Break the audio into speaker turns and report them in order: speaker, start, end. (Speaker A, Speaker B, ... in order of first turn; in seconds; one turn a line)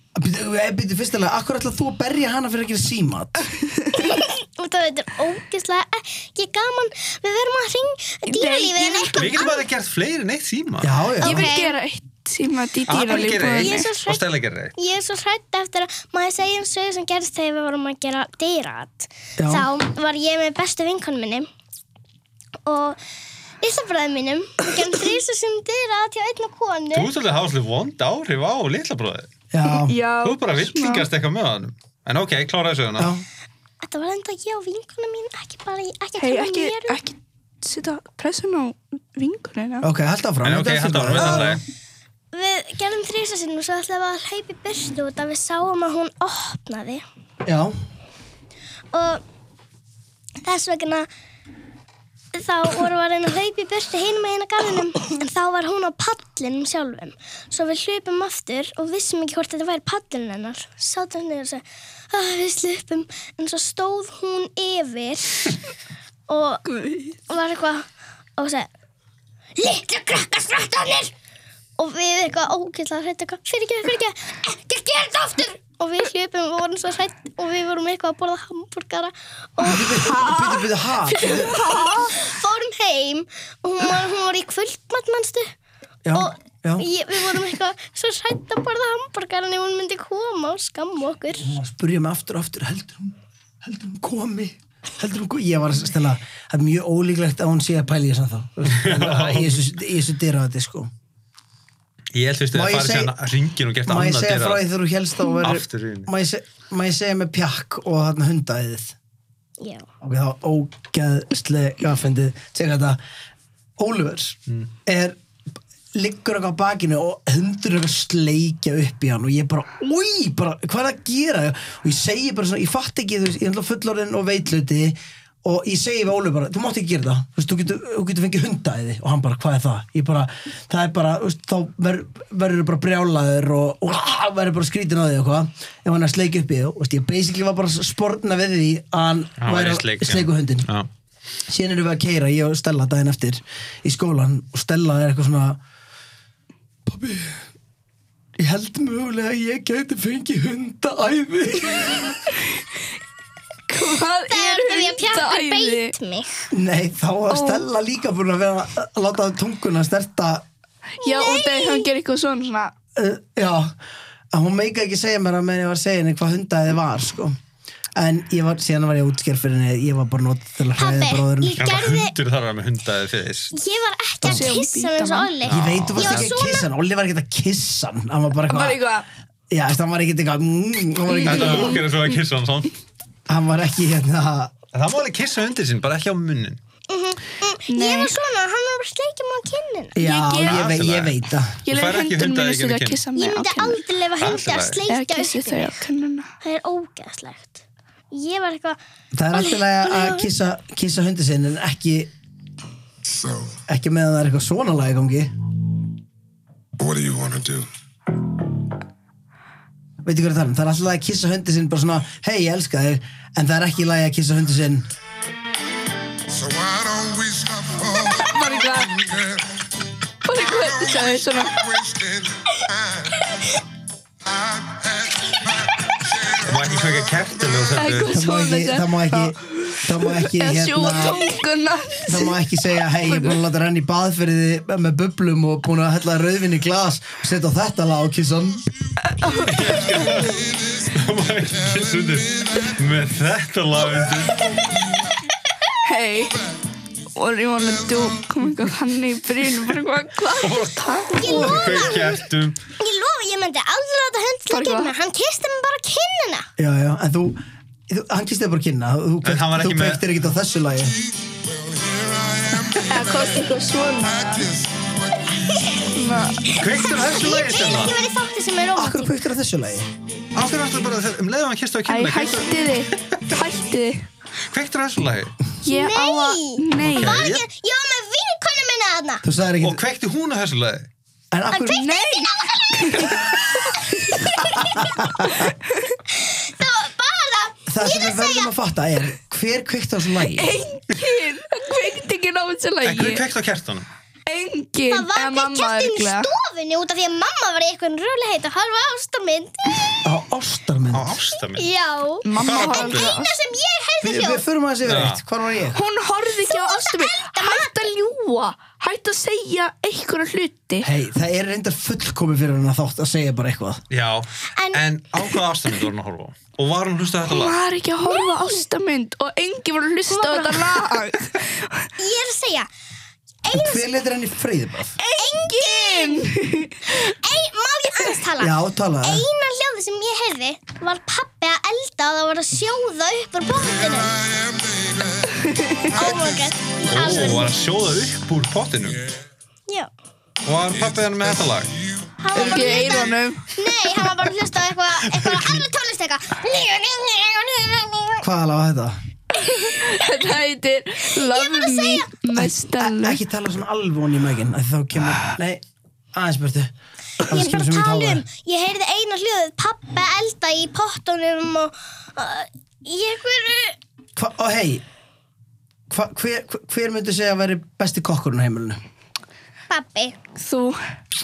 Speaker A: 0.1-3.5
Speaker B: 3.9-9.6
Speaker C: 8.3-9.5
Speaker D: 9.1-11.0
Speaker A: 10.8-11.5
Speaker B: 11.2-11.8
Speaker C: 11.2-13.9
Speaker D: 12.8-14.7
Speaker B: 13.6-14.2
Speaker B: 14.7-21.5
Speaker A: 19.4-19.7
Speaker B: 22.6-23.0
Speaker B: 23.6-27.1
Speaker D: 26.9-29.3
Speaker A: 29.5-30.0
Speaker C: 29.6-31.0
Speaker D: 30.2-33.1
Speaker A: 33.0-33.2
Speaker B: 33.8-37.0
Speaker C: 36.2-39.9
Speaker A: 39.8-41.6
Speaker D: 40.4-41.6
Speaker B: 42.3-47.0
Speaker A: 47.4-47.7
Speaker B: 48.9-49.2
Speaker B: 50.4-51.1
Speaker B: 52.3-65.6
Speaker B: 66.3-66.6
Speaker C: 66.7-67.2
Speaker B: 67.3-68.7
Speaker B: 69.6-71.1
Speaker B: 71.8-85.5
Speaker A: 79.6-81.6
Speaker C: 81.7-82.0
Speaker A: 86.0-86.8
Speaker B: 86.1-91.5
Speaker A: 91.4-100.9
Speaker D: 98.7-99.6
Speaker D: 102.1-104.6
Speaker A: 102.5-103.1
Speaker A: 103.8-108.9
Speaker D: 105.4-106.1
Speaker B: 109.6-109.8
Speaker A: 110.0-113.0
Speaker A: 113.8-115.2
Speaker A: 115.9-140.7
Speaker D: 139.4-140.9
Speaker A: 141.5-145.6
Speaker A: 146.8-147.4
Speaker A: 148.4-152.2
Speaker C: 153.7-155.9
Speaker B: 154.3-156.4
Speaker A: 156.5-160.4
Speaker C: 157.3-157.6
Speaker C: 161.0-162.7
Speaker B: 161.0-161.9
Speaker A: 162.9-163.7
Speaker A: 164.3-167.3
Speaker A: 167.9-171.6
Speaker B: 170.8-172.1
Speaker D: 171.6-173.5
Speaker B: 173.5-176.7
Speaker A: 174.2-174.5
Speaker C: 174.2-175.3
Speaker D: 175.4-176.3
Speaker A: 175.5-178.8
Speaker C: 178.5-179.1
Speaker A: 179.5-181.8
Speaker C: 181.1-181.9
Speaker D: 181.2-182.7
Speaker A: 183.3-184.5
Speaker D: 184.7-186.6
Speaker B: 186.9-190.0
Speaker C: 187.7-188.1
Speaker A: 189.9-191.6
Speaker C: 190.0-190.7
Speaker D: 190.4-193.0
Speaker C: 191.7-193.8
Speaker B: 193.1-195.9
Speaker D: 194.2-194.8
Speaker C: 194.9-196.3
Speaker B: 196.4-198.8
Speaker A: 199.1-202.1
Speaker B: 199.3-200.3
Speaker E: 203.1-203.6
Speaker A: 203.7-205.3
Speaker E: 206.8-207.7
Speaker A: 210.0-214.9
Speaker E: 216.3-219.4
Speaker C: 218.1-219.0
Speaker C: 220.2-221.6
Speaker E: 220.6-223.1
Speaker E: 224.3-227.8
Speaker D: 226.4-228.2
Speaker C: 227.8-232.4
Speaker A: 228.1-231.3
Speaker A: 232.1-238.6
Speaker C: 233.0-233.4
Speaker C: 239.1-240.4
Speaker D: 239.3-244.6
Speaker C: 245.8-246.4
Speaker C: 247.1-251.6
Speaker D: 250.4-252.6
Speaker B: 251.1-252.2
Speaker B: 252.8-256.5
Speaker C: 254.5-254.9
Speaker A: 256.6-260.9
Speaker D: 259.2-260.1
Speaker E: 261.2-265.7
Speaker C: 262.9-264.5
Speaker C: 265.9-266.5
Speaker B: 266.4-269.1
Speaker D: 266.5-267.9
Speaker A: 268.8-269.9
Speaker D: 270.3-273.2
Speaker C: 271.9-274.1
Speaker D: 274.5-275.4
Speaker C: 275.6-277.2
Speaker B: 275.7-279.2
Speaker D: 276.8-277.4
Speaker A: 279.2-279.8
Speaker D: 279.6-280.9
Speaker A: 281.3-281.8
Speaker B: 281.5-284.9
Speaker C: 281.8-284.0
Speaker A: 284.6-285.5
Speaker C: 285.4-285.9
Speaker B: 286.1-288.5
Speaker A: 287.7-290.5
Speaker C: 290.2-293.2
Speaker D: 292.8-293.9
Speaker C: 294.3-296.3
Speaker B: 294.9-299.8
Speaker A: 300.0-301.2
Speaker D: 300.9-301.6
Speaker B: 301.6-304.4
Speaker C: 302.2-303.3
Speaker D: 302.4-303.2
Speaker A: 304.0-305.8
Speaker D: 304.8-305.2
Speaker C: 305.7-310.9
Speaker B: 306.4-307.7
Speaker A: 310.8-313.8
Speaker D: 313.9-317.6
Speaker B: 314.5-314.8
Speaker C: 317.3-321.9
Speaker B: 318.0-318.6
Speaker B: 320.1-321.0
Speaker B: 322.0-322.7
Speaker B: 323.4-323.9
Speaker A: 323.5-325.0
Speaker C: 325.0-326.9
Speaker B: 325.1-326.3
Speaker B: 326.9-334.1
Speaker A: 328.4-329.2
Speaker E: 334.2-335.3
Speaker C: 335.5-335.9
Speaker B: 335.9-337.5
Speaker E: 335.9-336.5
Speaker D: 336.9-339.0
Speaker D: 340.4-341.7
Speaker B: 342.2-348.2
Speaker C: 342.3-343.5
Speaker D: 345.1-345.6
Speaker A: 348.2-349.0
Speaker C: 349.4-353.2
Speaker B: 351.1-352.1
Speaker A: 352.3-355.6
Speaker A: 356.1-356.7
Speaker A: 357.2-358.2
Speaker B: 357.2-363.8
Speaker A: 364.1-364.8
Speaker A: 365.9-368.8
Speaker B: 369.7-370.2
Speaker C: 370.4-370.8